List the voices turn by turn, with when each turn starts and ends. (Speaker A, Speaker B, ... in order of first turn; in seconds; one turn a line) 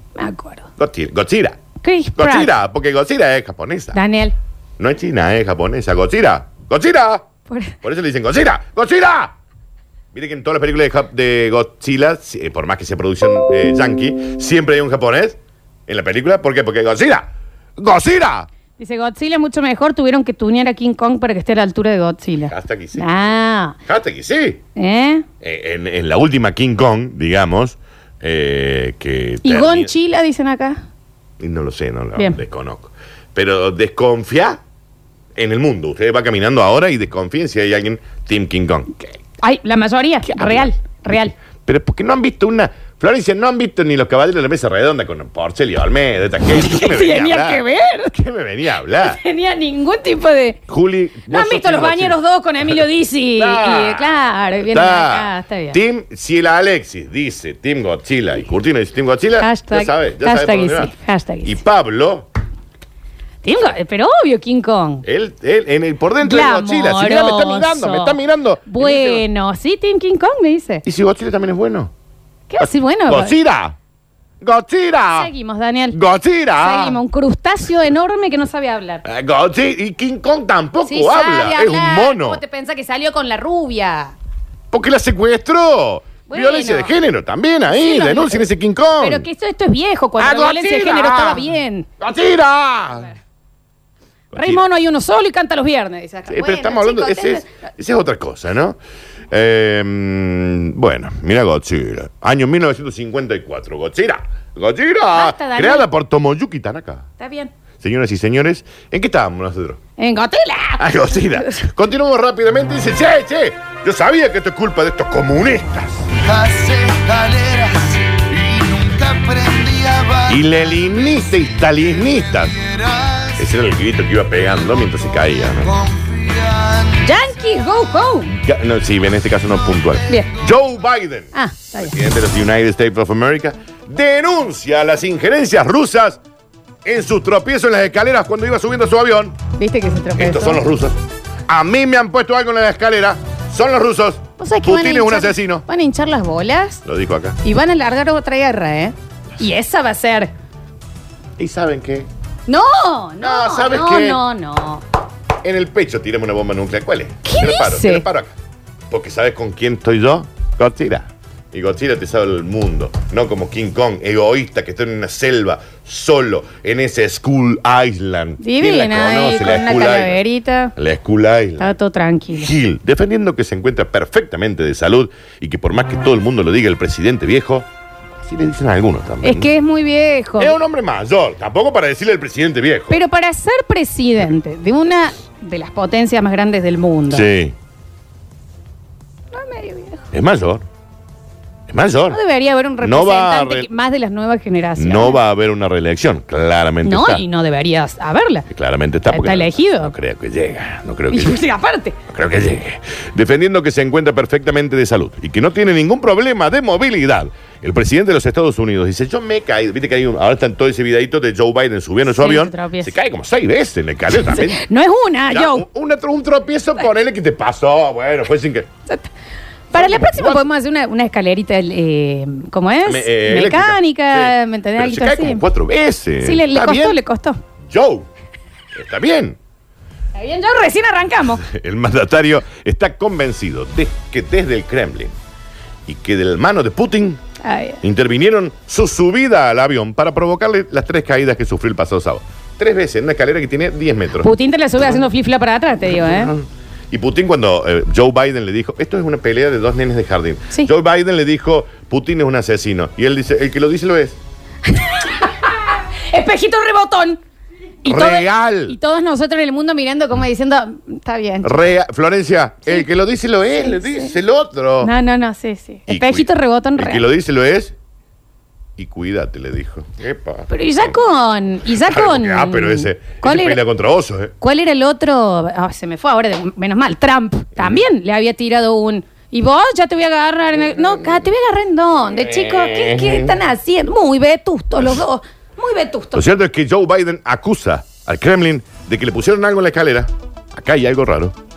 Speaker A: 0.2-0.7
Speaker B: 0.8-1.6
Speaker A: 1.8-2.5
Speaker B: 2.2-4.0
Speaker A: 3.9-4.3
Speaker B: 4.8-7.3
Speaker A: 7.5-7.8
Speaker B: 7.8-9.3
Speaker B: 10.1-18.5
Speaker A: 18.8-23.8
Speaker B: 22.5-23.1
Speaker B: 23.9-24.6
Speaker A: 24.8-25.3
Speaker B: 25.4-29.9
Speaker A: 29.4-30.8
Speaker B: 31.4-34.6
Speaker B: 35.4-39.2
Speaker A: 39.4-41.3
Speaker B: 40.3-49.2
Speaker A: 46.5-48.1
Speaker A: 49.0-50.6
Speaker B: 50.7-52.8
Speaker A: 51.3-55.8
Speaker B: 53.4-54.1
Speaker B: 54.7-60.9
Speaker A: 59.4-61.6
Speaker B: 61.4-62.3
Speaker A: 63.4-65.1
Speaker B: 65.0-69.2
Speaker A: 66.2-70.8
Speaker B: 70.8-71.9
Speaker A: 72.5-73.3
Speaker B: 72.6-73.8
Speaker B: 74.4-75.3
Speaker A: 75.1-76.0
Speaker B: 75.9-77.0
Speaker A: 76.6-79.0
Speaker B: 79.0-82.4
Speaker A: 80.9-84.1
Speaker B: 84.7-89.3
Speaker A: 86.3-86.9
Speaker A: 87.7-88.5
Speaker A: 89.0-91.9
Speaker B: 90.2-93.1
Speaker B: 94.3-94.6
Speaker A: 94.3-97.5
Speaker B: 96.3-98.8
Speaker B: 99.3-107.1
Speaker A: 105.1-105.9
Speaker A: 107.2-107.5
Speaker B: 107.8-109.8
Speaker A: 110.0-111.6
Speaker B: 110.8-116.1
Speaker C: 116.2-120.4
Speaker B: 120.3-122.5
Speaker C: 122.3-123.4
Speaker B: 123.4-125.7
Speaker C: 125.6-127.1
Speaker A: 127.0-128.3
Speaker B: 128.3-136.2
Speaker A: 131.3-131.9
Speaker B: 136.8-139.4
Speaker A: 139.6-140.6
Speaker B: 140.2-145.6
Speaker A: 144.4-146.8
Speaker B: 146.8-147.4
Speaker A: 147.4-150.3
Speaker B: 151.4-152.1
Speaker A: 152.5-154.8
Speaker B: 153.2-154.2
Speaker B: 155.4-158.4
Speaker A: 157.2-158.1
Speaker B: 158.9-170.2
Speaker A: 168.4-170.7
Speaker B: 170.8-171.8
Speaker A: 171.6-172.5
Speaker B: 172.3-177.7
Speaker B: 178.2-179.5
Speaker A: 179.2-180.6
Speaker B: 180.4-183.0
Speaker A: 182.9-187.3
Speaker B: 187.1-187.6
Speaker A: 189.3-190.1
Speaker B: 190.1-190.7
Speaker B: 191.7-192.2
Speaker A: 192.1-195.2
Speaker B: 192.8-193.7
Speaker B: 194.8-197.2
Speaker A: 196.8-198.5
Speaker B: 198.5-201.4
Speaker A: 199.1-199.9
Speaker A: 201.1-202.0
Speaker B: 202.1-214.7
Speaker A: 212.1-212.9
Speaker A: 214.2-215.7
Speaker B: 215.3-218.7
Speaker A: 219.7-225.4
Speaker B: 219.7-220.5
Speaker B: 222.9-227.0
Speaker A: 226.2-227.4
Speaker B: 227.7-228.1
Speaker B: 228.7-229.4
Speaker A: 230.2-231.5
Speaker B: 231.4-235.1
Speaker B: 235.9-237.2
Speaker A: 237.4-237.8
Speaker B: 237.8-245.0
Speaker A: 244.2-246.3
Speaker B: 245.9-254.2
Speaker A: 254.7-257.2
Speaker A: 257.8-261.6
Speaker B: 257.9-258.8
Speaker B: 261.4-264.9
Speaker A: 263.6-264.1
Speaker A: 264.8-267.1
Speaker B: 265.9-267.8
Speaker B: 268.8-270.9
Speaker A: 270.5-273.6
Speaker B: 271.7-274.4
Speaker A: 274.4-286.3
Speaker B: 280.8-281.1
Speaker B: 282.1-283.4
Speaker B: 286.1-291.4